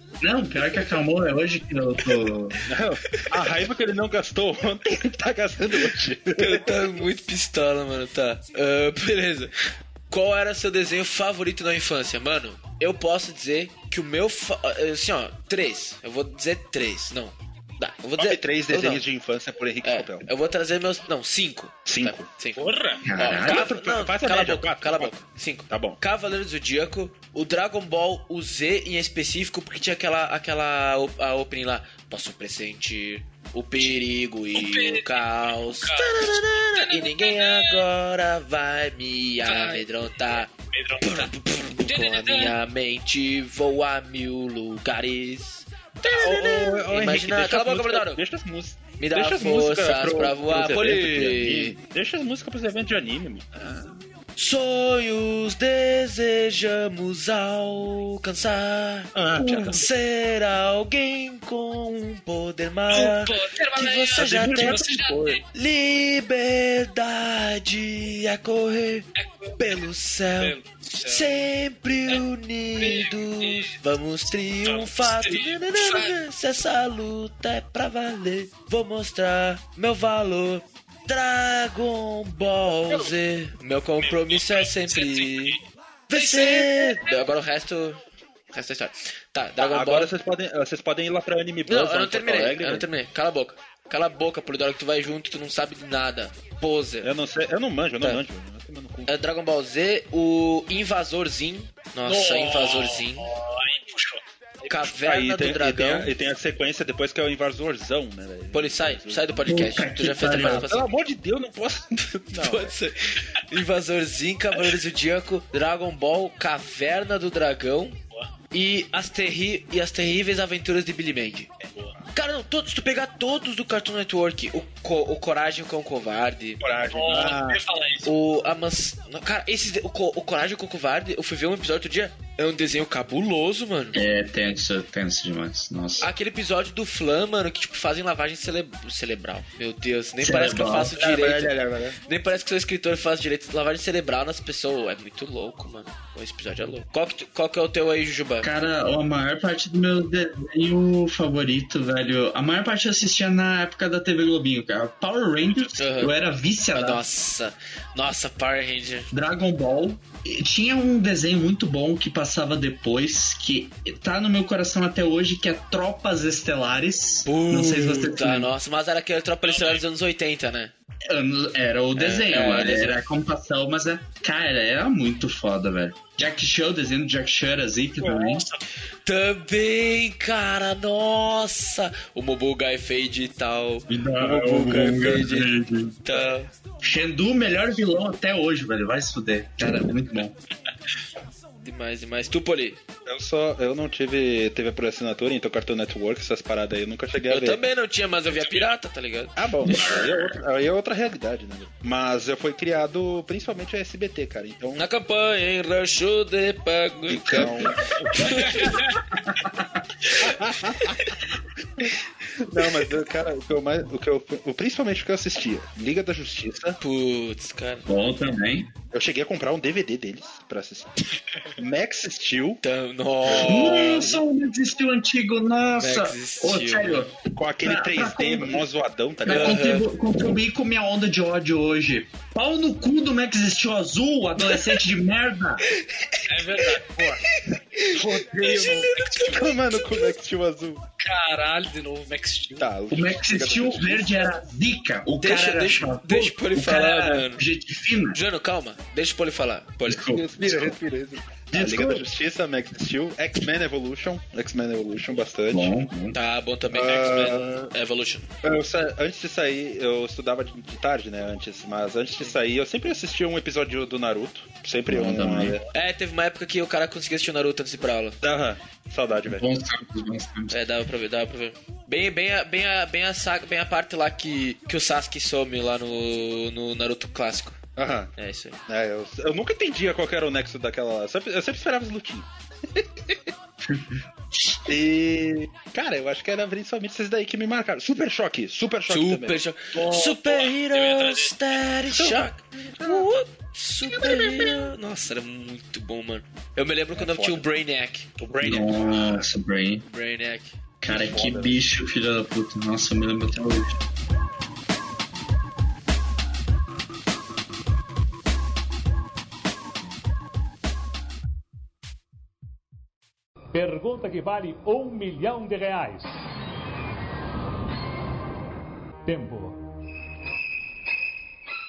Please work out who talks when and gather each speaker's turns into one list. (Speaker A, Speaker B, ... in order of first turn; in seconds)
Speaker A: 0.2-2.6, 23.1-23.7, 109.5-110.7, 133.9-136.1, 140.2-141.0, 148.4-157.0, 159.1-168.5, 171.1-178.4, 183.9-186.0, 186.8-190.3, 199.7-200.1, 207.3-207.8, 217.9-218.7, 223.3-228.6, 229.2-235.7, 242.9-248.2, 249.9-250.8, 251.5-252.1, 255.5-256.2, 264.9-265.6, 269.2-270.6, 283.6-284.0, 294.2-294.6, 298.4-299.9, 300.8-303.8
Speaker B: 2.7-6.8, 18.2-20.3, 21.9-22.3, 23.3-25.1, 25.7-26.0, 46.0-54.0, 59.1-59.9, 64.2-65.4, 89.6-92.9, 97.0-99.1, 104.9-109.5, 110.4-112.7, 121.6-122.1, 126.6-127.6, 140.9-142.0, 193.1-197.7, 199.4-204.9, 207.1-208.8, 210.2-211.2, 211.8-216.8, 218.9-220.9, 221.6-222.6, 223.3-224.0, 227.3-229.6, 237.9-240.8, 242.6-244.2, 250.1-255.8, 256.7-257.7, 258.4-265.6, 268.2-269.5, 277.8-278.1, 278.7-283.3, 284.7-290.1, 291.9-293.1, 296.9-297.5, 298.2-299.2, 300.9-301.6
Speaker C: 6.4-19.0, 19.8-40.5, 41.0-48.2, 49.0-51.8, 54.4-64.8, 65.5-69.1, 69.6-85.6, 86.1-88.0, 88.5-90.1, 91.7-97.1, 99.1-103.3, 104.7-106.1, 108.5-110.9, 112.0-113.0, 113.5-118.0, 118.5-121.5, 122.1-126.6, 128.1-134.0, 136.0-141.5, 142.1-148.5, 155.8-156.1, 156.7-159.1, 167.2-170.7, 172.0-173.0, 179.1-185.5, 186.1-186.5, 191.6-192.8, 197.3-200.1, 204.8-208.8, 216.8-217.9, 222.6-224.2, 225.8-227.1, 229.3-229.9, 237.6-237.9, 245.2-247.4, 248.1-250.0, 256.1-258.3, 265.7-268.2, 270.5-277.6, 278.2-278.6, 288.9-299.0, 299.9-300.6
Speaker D: 22.6-23.0, 34.5-37.8, 39.5-42.5, 62.9-65.4, 69.2-69.8, 70.4-71.3, 72.8-73.8, 74.6-76.1, 84.0-85.6, 86.1-87.2, 102.1-104.7, 126.9-128.1, 169.4-169.8, 178.0-178.6, 198.3-198.7, 236.3-237.2, 237.9-239.6, 241.0-242.7, 289.9-291.6
Speaker E: 313.5-316.2, 319.1-319.6